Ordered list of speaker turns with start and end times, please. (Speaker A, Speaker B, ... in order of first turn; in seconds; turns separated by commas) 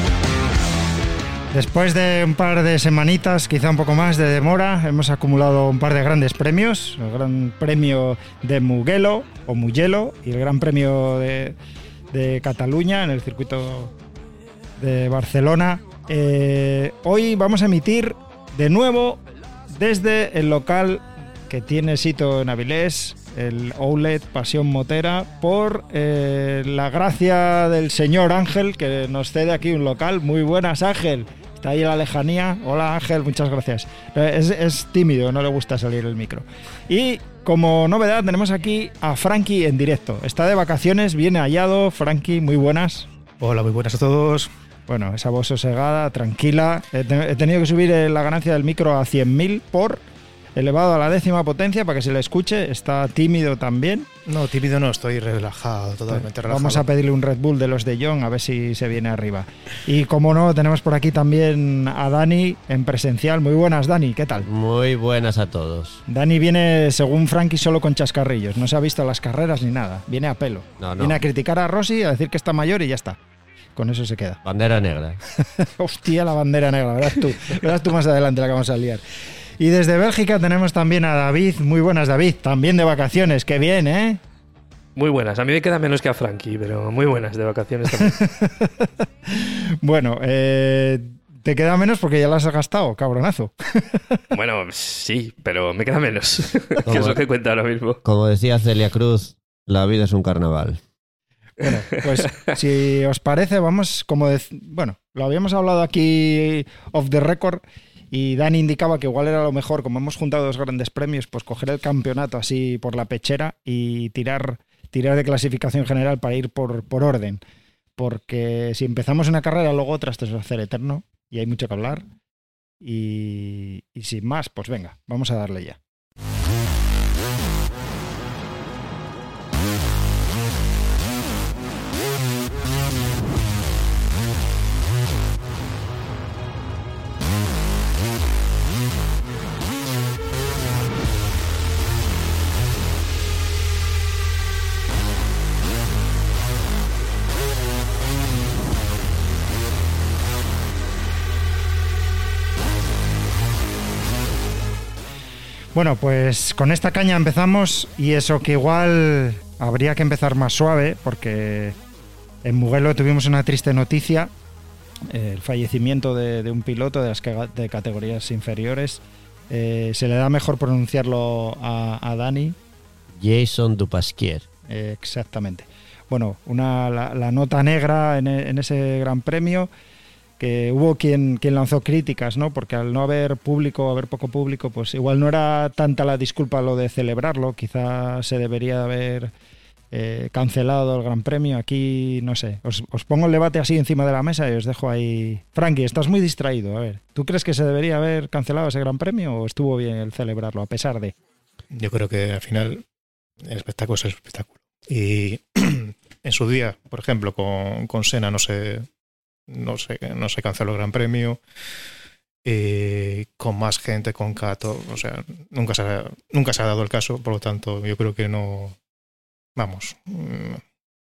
Speaker A: 1.5-11.6, Speaker A: 12.1-13.9, Speaker A: 14.8-19.2, Speaker A: 19.7-43.1, Speaker B: 43.4-44.5, Speaker A: 44.9-50.0, Speaker A: 50.6-54.1, Speaker B: 54.3-56.9, Speaker A: 56.1-64.5, Speaker C: 64.4-66.0, Speaker A: 66.1-73.2, Speaker C: 70.8-71.2, Speaker A: 73.8-74.4, Speaker C: 74.4-75.2, Speaker A: 75.4-79.0, Speaker A: 79.6-84.2, Speaker D: 85.0-88.2, Speaker A: 87.9-94.2, Speaker D: 94.3-98.0, Speaker C: 96.8-97.2, Speaker C: 98.0-100.8, Speaker A: 101.6-117.4, Speaker A: 118.0-122.0, Speaker A: 122.8-125.8, Speaker A: 155.7-161.8, Speaker A: 162.4-164.3, Speaker A: 165.1-172.6, Speaker C: 173.1-174.5, Speaker A: 174.7-179.7, Speaker A: 180.4-189.3, Speaker A: 189.9-201.1, Speaker B: 201.7-202.8, Speaker B: 203.4-208.9, Speaker B: 209.5-211.4, Speaker B: 212.4-218.8, Speaker B: 219.6-220.6